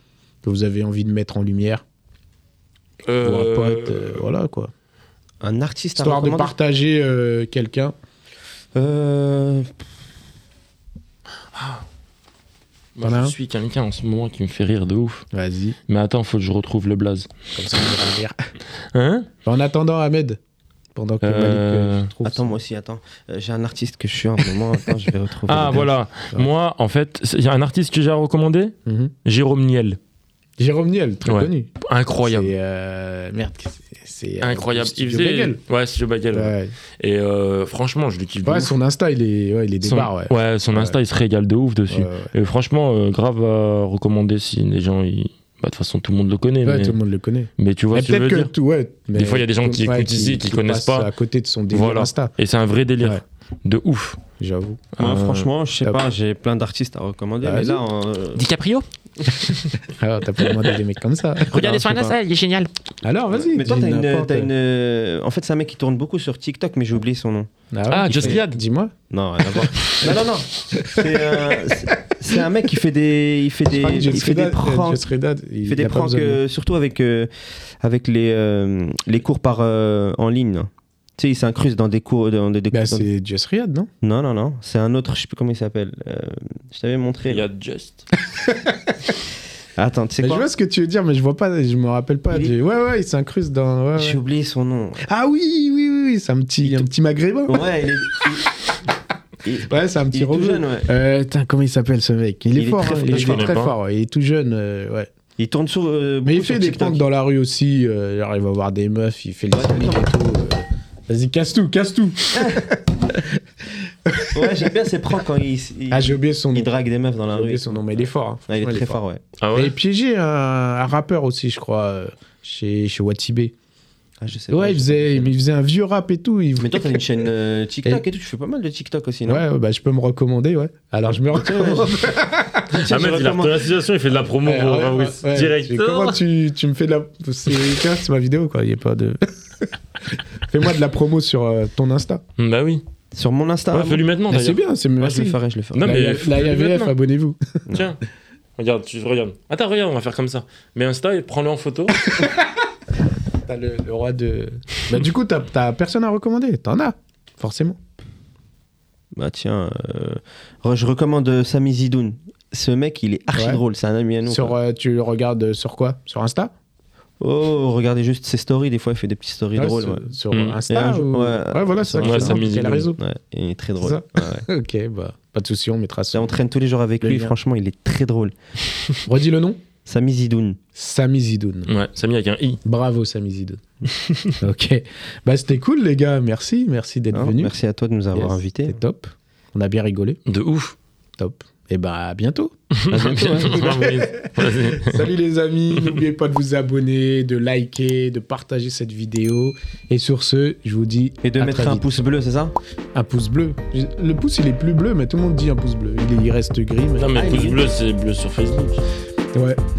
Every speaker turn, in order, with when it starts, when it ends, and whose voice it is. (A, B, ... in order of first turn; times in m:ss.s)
0:00.4-0:01.8 A
0:03.1-0:04.2 B
0:03.2-0:04.7 A
0:05.4-0:06.5 C
0:06.0-0:07.9 A
0:08.7-0:09.7 C
0:11.6-0:11.8 B
0:13.0-0:15.2 B
0:13.0-0:13.3 A
0:15.3-0:15.8 A
0:15.9-0:17.3 B
0:17.5-0:18.4 A
0:18.9-0:19.3 B
0:19.4-0:20.4 A
0:20.9-0:22.6 A
0:21.2-0:22.1 B
0:22.2-0:25.9 C
0:25.5-0:30.0 B
0:28.8-0:29.1 A
0:30.6-0:31.7 A
0:31.2-0:32.5 B
0:32.2-0:35.6 A
0:34.4-0:38.7 B
0:36.3-0:36.7 A
0:38.4-0:41.0 A
0:39.8-0:47.0 B
0:41.9-0:42.3 A
0:46.6-0:52.3 A
0:47.6-0:48.5 B
0:49.1-0:51.1 B
0:51.7-0:54.2 B
0:54.4-0:54.8 A
0:55.0-0:55.5 B
0:55.0-0:58.5 C
0:57.4-0:57.8 A
0:58.4-0:59.7 B
0:59.8-1:01.5 A
1:01.5-1:02.7 B
1:01.5-1:02.2 C
1:03.0-1:04.5 A
1:03.3-1:07.5 C
1:07.7-1:08.9 A
1:07.9-1:08.6 B
1:09.1-1:15.0 C
1:09.9-1:10.2 A
1:10.8-1:12.0 A
1:13.7-1:16.4 A
1:15.6-1:17.3 C
1:17.8-1:23.1 C
1:22.7-1:23.9 A
1:24.0-1:27.4 C
1:27.3-1:28.1 B
1:29.8-1:30.5 C
1:30.2-1:34.2 A
1:32.3-1:32.5 C
1:33.9-1:35.0 C
1:35.1-1:37.6 A
1:37.5-1:38.4 C
1:39.4-1:40.9 C
1:39.7-1:45.1 A
1:42.5-1:43.5 C
1:43.1-1:43.7 B
1:45.4-1:47.0 C
1:46.2-1:53.4 A
1:49.5-1:50.1 C
1:52.3-1:52.7 C
1:54.1-1:54.4 A
1:54.3-1:59.2 C
1:55.9-1:56.7 A
1:57.3-1:59.0 A
1:59.4-1:59.8 B
1:59.5-2:03.5 A
2:04.2-2:05.4 C
2:04.5-2:07.0 A
2:06.6-2:09.4 C
2:09.3-2:12.8 A
2:11.3-2:12.0 C
2:12.7-2:13.7 C
2:12.9-2:16.2 B
2:14.4-2:22.2 A
2:22.4-2:22.8 B
2:23.1-2:24.0 C
2:23.7-2:24.6 B
2:24.3-2:27.6 A
2:25.0-2:25.8 C
2:25.7-2:26.9 B
2:27.7-2:28.0 B
2:28.6-2:32.1 B
2:33.4-2:37.8 A
2:39.1-2:44.6 C
2:43.3-2:43.6 A
2:44.2-2:46.5 A
2:47.2-2:50.1 C
2:49.6-2:53.0 A
2:50.3-2:50.6 B
2:50.7-2:52.4 C
2:52.0-2:52.9 B
2:53.0-2:54.4 C
2:53.8-2:56.3 A
2:56.1-2:58.3 C
2:57.0-2:57.3 A
2:59.0-2:59.6 A
2:59.8-3:00.6 C
3:00.8-3:01.7 A
3:01.7-3:02.6 B
3:02.6-3:03.6 A
3:04.4-3:07.5 A
3:07.1-3:08.8 C
3:08.1-3:10.2 A
3:10.3-3:10.8 B
3:11.2-3:12.5 A
3:12.7-3:15.1 B
3:12.9-3:13.7 C
3:13.4-3:22.0 A
3:21.2-3:22.5 C
3:22.9-3:27.1 A
3:27.0-3:28.8 B
3:27.1-3:27.6 C
3:29.3-3:29.6 A